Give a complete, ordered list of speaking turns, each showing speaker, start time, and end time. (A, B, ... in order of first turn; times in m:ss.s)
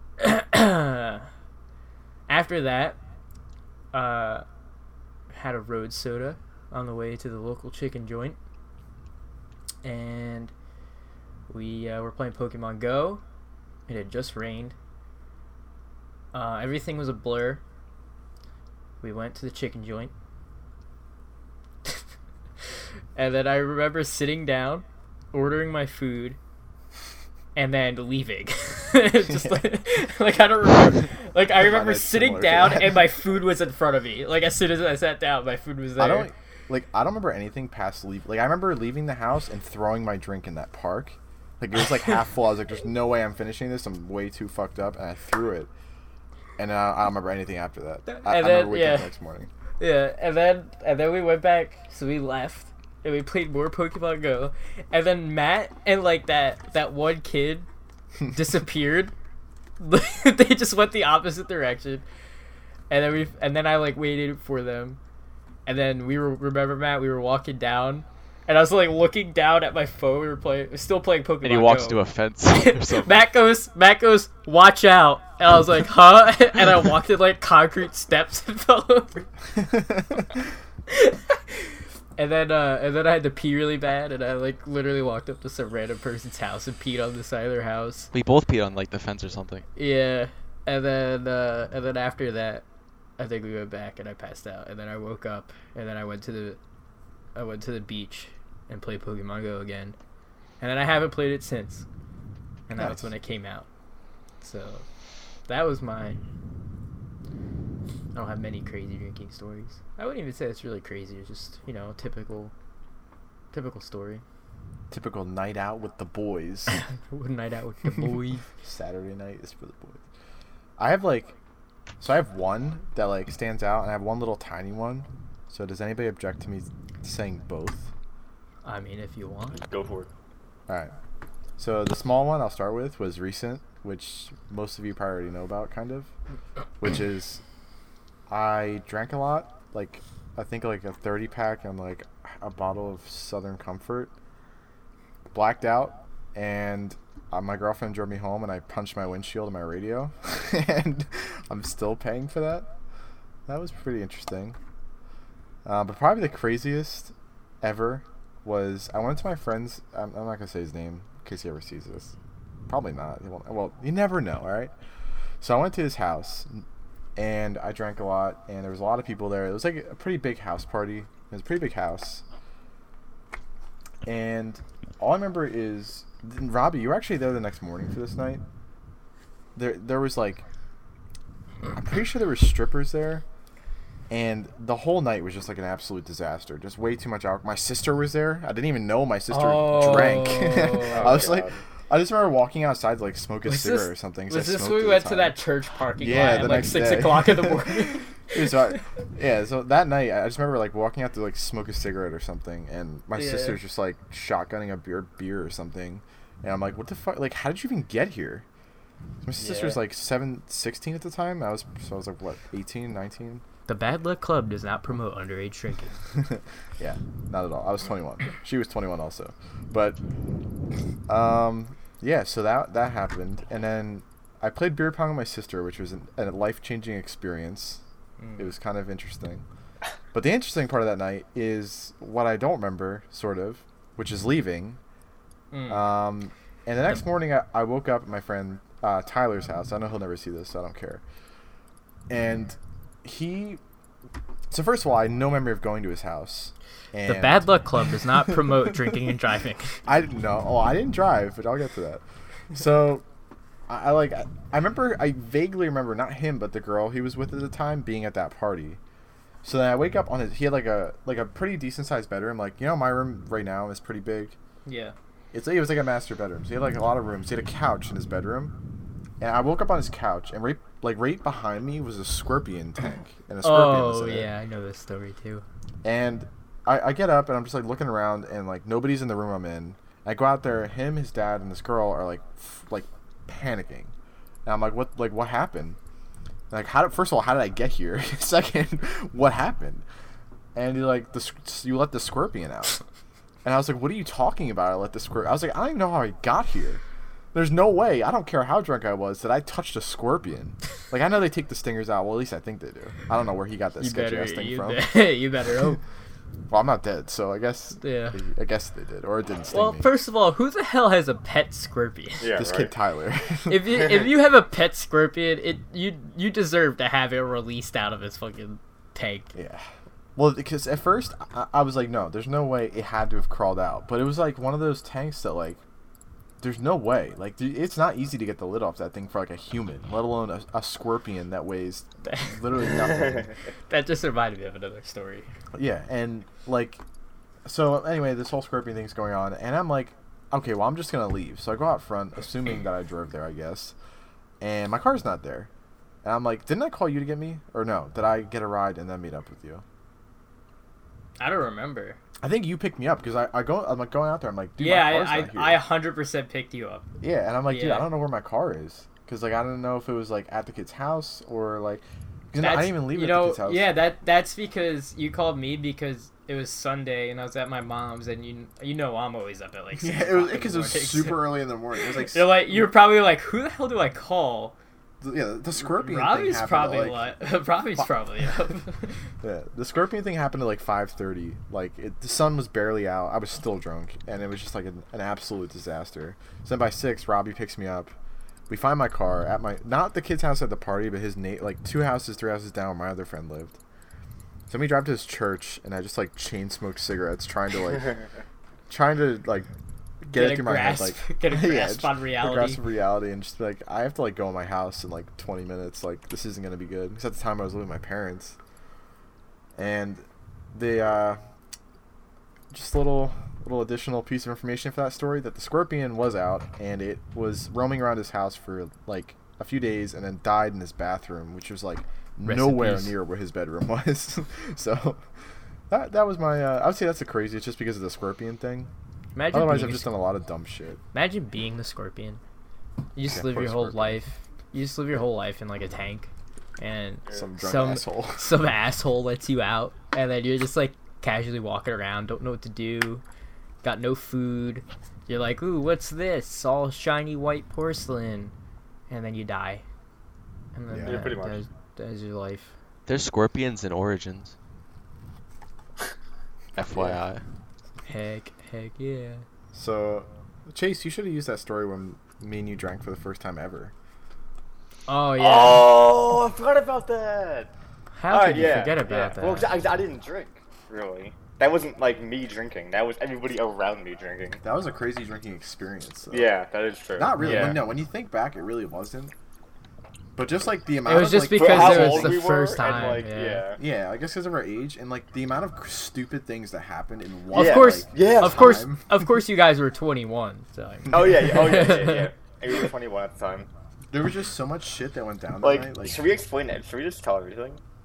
0:00.2-0:01.3 A
0:02.3-0:03.0 A
0:03.9-0:04.4 A
0:05.3-0:08.4 A
0:09.8-0:10.5 A
0:11.5-0:13.2 A
0:13.9-0:14.7 A
0:16.3-0:17.6 A
0:19.0-0:20.1 A
0:23.2-0:26.4 A
0:27.6-0:36.3 A
0:31.6-0:33.2 B
0:36.0-0:45.7 B
0:46.6-0:49.5 B
0:48.1-0:49.1 A
0:49.8-0:57.7 A
0:58.3-0:59.1 A
0:59.8-1:02.0 A
1:02.9-1:05.0 A
1:05.7-1:19.3 A
1:11.4-1:13.2 C
1:19.6-1:20.2 B
1:20.9-1:28.1 A
1:28.1-1:29.7 C
1:29.8-1:32.6 A
1:33.2-1:36.6 A
1:37.4-1:40.0 A
1:40.6-1:41.9 A
1:42.7-1:43.7 A
1:42.8-1:43.1 B
1:44.4-1:44.9 A
1:45.5-1:46.2 A
1:48.1-1:52.5 A
1:53.5-1:54.2 A
1:54.9-1:56.8 B
1:56.7-1:58.5 A
1:58.6-2:00.0 B
2:00.8-2:01.3 B
2:02.0-2:07.9 B
2:08.6-2:09.6 A
2:09.5-2:10.1 D
2:11.6-2:16.1 B
2:16.8-2:17.4 B
2:18.3-2:24.1 B
2:25.3-2:32.7 B
2:33.5-2:34.6 B
2:35.6-2:42.2 B
2:42.7-2:44.7 B
2:45.4-2:46.6 B
2:47.2-2:52.2 B
2:54.0-2:58.4 B
2:59.6-3:00.4 B
3:01.7-3:03.2 B
3:04.1-3:15.4 B
3:09.3-3:11.3 A
3:10.8-3:11.6 D
3:13.4-3:18.6 A
3:16.0-3:28.5 B
3:23.2-3:23.6 A
3:29.2-3:33.4 B
3:29.4-3:29.8 A
3:33.7-3:36.0 A
3:36.2-3:40.0 B
3:41.1-3:47.8 B
3:48.2-3:48.5 A
3:48.4-3:49.4 B
3:50.1-3:54.8 B
3:55.5-3:55.9 A
3:55.7-4:01.0 B
4:02.1-4:03.6 B
4:04.5-4:08.7 B
4:07.1-4:09.8 A
4:09.8-4:13.0 B
4:13.7-4:18.8 B
4:19.4-4:24.4 B
4:24.6-4:25.0 A
4:25.3-4:28.5 B
4:29.2-4:34.3 B
4:33.4-4:35.4 A
4:35.8-4:43.9 B
4:44.5-4:45.8 B
4:46.5-4:49.8 B
4:50.6-4:52.8 B
4:53.4-4:56.8 B
4:57.3-5:05.1 B
5:03.8-5:05.8 A
5:06.5-5:09.9 B
5:07.8-5:08.2 A
5:09.5-5:12.3 A
5:12.2-5:12.7 D
5:12.3-5:14.1 B
5:13.5-5:19.3 A
5:19.3-5:19.6 B
5:20.2-5:25.6 B
5:26.4-5:33.3 B
5:32.1-5:32.7 A
5:32.8-5:33.3 D
5:33.7-5:35.3 A
5:35.5-5:36.8 B
5:37.4-5:43.8 B
5:44.4-5:45.5 B
5:46.0-5:49.6 B
5:51.2-5:52.0 A
5:52.2-5:55.6 B
5:54.6-5:56.9 A
5:57.0-6:03.8 B
5:57.4-5:57.9 A
6:02.4-6:14.6 A
6:09.7-6:12.7 B
6:15.0-6:17.2 B
6:15.6-6:19.0 A
6:19.2-6:27.9 B
6:28.5-6:33.6 B
6:34.5-6:38.0 B
6:38.7-6:39.5 B
6:40.0-6:48.4 B
6:40.1-6:42.6 A
6:49.6-6:51.2 B
6:52.5-7:05.0 B
7:02.2-7:03.0 A
7:05.7-7:08.7 B
7:09.2-7:09.9 A
7:09.3-7:10.8 B
7:10.9-7:12.2 A
7:13.0-7:23.0 A
7:13.1-7:14.1 B
7:17.1-7:18.4 B
7:23.6-7:28.3 A
7:28.9-7:29.6 A
7:30.5-7:32.5 A
7:30.7-7:31.1 B
7:30.8-7:31.4 D
7:32.9-7:34.4 C
7:36.6-7:37.2 C
7:36.7-7:37.0 B
7:37.8-7:39.2 A
7:39.5-7:43.7 B
7:44.9-7:45.7 A
7:45.2-7:47.5 D
7:47.9-7:49.6 A
7:48.1-7:54.4 D
7:54.4-7:56.3 B
7:56.1-7:57.6 D
7:57.0-7:59.1 B
8:00.2-8:02.2 B
8:00.8-8:03.4 A
8:01.4-8:03.6 D
8:03.6-8:08.9 B
8:07.3-8:12.1 A
8:07.3-8:08.7 D
8:10.9-8:13.5 D
8:13.9-8:16.0 B
8:15.4-8:17.6 D